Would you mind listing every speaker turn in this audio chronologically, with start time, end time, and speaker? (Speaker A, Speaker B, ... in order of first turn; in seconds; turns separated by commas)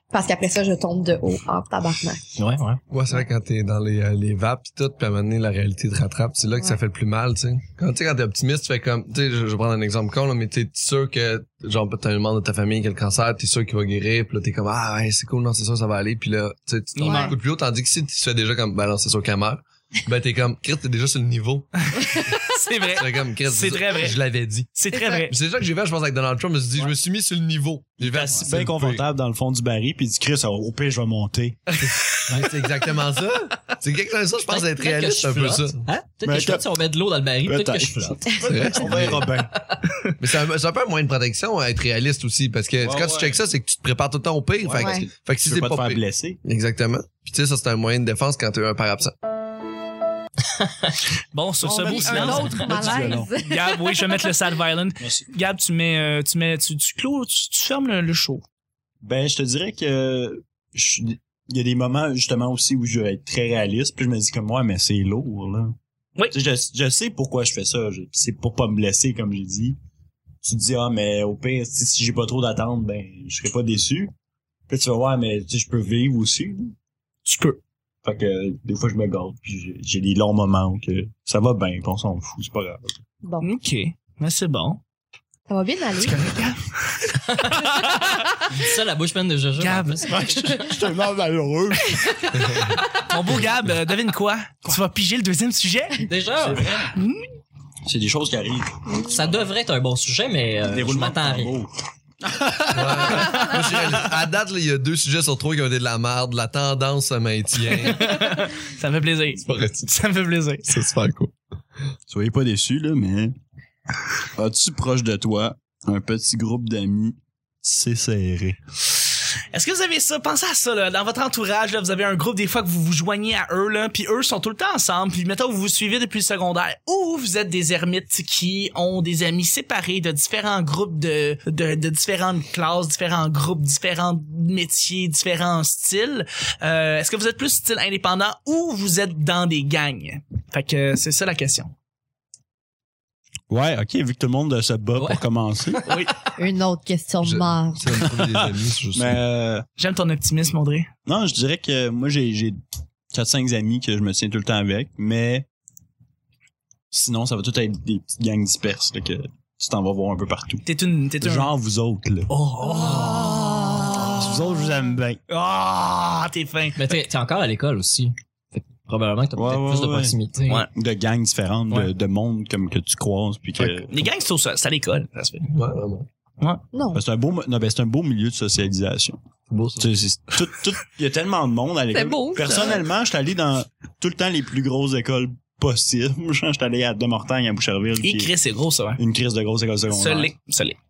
Speaker A: 0.1-2.2, Speaker B: 2.4-2.8, Speaker C: 2.9-22.3, Speaker D: 16.9-17.4, Speaker A: 17.0-17.3, Speaker D: 21.9-24.2, Speaker C: 22.9-29.0, Speaker D: 24.7-25.3, Speaker E: 28.1-31.6, Speaker C: 32.0-35.8, Speaker B: 34.4-38.4, Speaker E: 36.2-36.6, Speaker E: 37.5-39.5, Speaker A: 38.3-39.0, Speaker C: 38.4-39.3, Speaker C: 40.2-49.1, Speaker E: 42.8-43.4, Speaker E: 44.6-46.4, Speaker A: 44.8-45.1, Speaker B: 50.6-51.0, Speaker D: 51.3-58.4, Speaker E: 51.6-53.3, Speaker A: 51.6-54.3, Speaker E: 55.0-55.2, Speaker E: 59.0-65.8, Speaker E: 66.3-69.8, Speaker E: 70.4-74.1, Speaker E: 74.7-76.7, Speaker D: 77.2-77.6, Speaker E: 78.0-83.0, Speaker D: 83.4-84.8, Speaker A: 85.5-86.2, Speaker D: 86.0-87.1, Speaker B: 87.2-87.8, Speaker B: 88.5-90.7, Speaker D: 89.6-90.7, Speaker E: 90.1-92.0, Speaker D: 92.2-96.0, Speaker B: 96.0-96.7, Speaker E: 96.4-97.0, Speaker D: 96.9-97.2, Speaker E: 97.8-99.2, Speaker A: 98.9-99.1, Speaker B: 99.0-101.5, Speaker E: 100.7-103.4, Speaker C: 102.7-108.4, Speaker D: 107.7-110.7, Speaker C: 109.4-109.9, Speaker C: 110.7-111.3, Speaker E: 112.1-113.3, Speaker E: 114.3-118.6, Speaker D: 119.5-141.7, Speaker E: 143.5-145.8, Speaker B: 145.0-145.2, Speaker B: 145.7-146.0, Speaker D: 145.8-146.1, Speaker A: 146.4-148.0, Speaker C: 147.2-149.2, Speaker E: 148.1-149.6, Speaker D: 149.8-150.9, Speaker E: 151.0-152.6, Speaker E: 153.1-155.4, Speaker E: 156.9-160.6, Speaker D: 160.6-161.5, Speaker E: 161.2-165.2, Speaker D: 162.3-164.4, Speaker D: 165.3-167.0, Speaker B: 166.8-170.7, Speaker E: 169.3-170.1, Speaker E: 170.7-174.0, Speaker D: 173.6-175.5, Speaker C: 175.5-176.1, Speaker A: 176.7-177.0, Speaker E: 176.9-179.2, Speaker C: 179.5-179.9, Speaker E: 179.8-188.3, Speaker A: 181.9-182.8, Speaker D: 188.0-189.0, Speaker E: 189.0-190.3, Speaker D: 189.9-190.8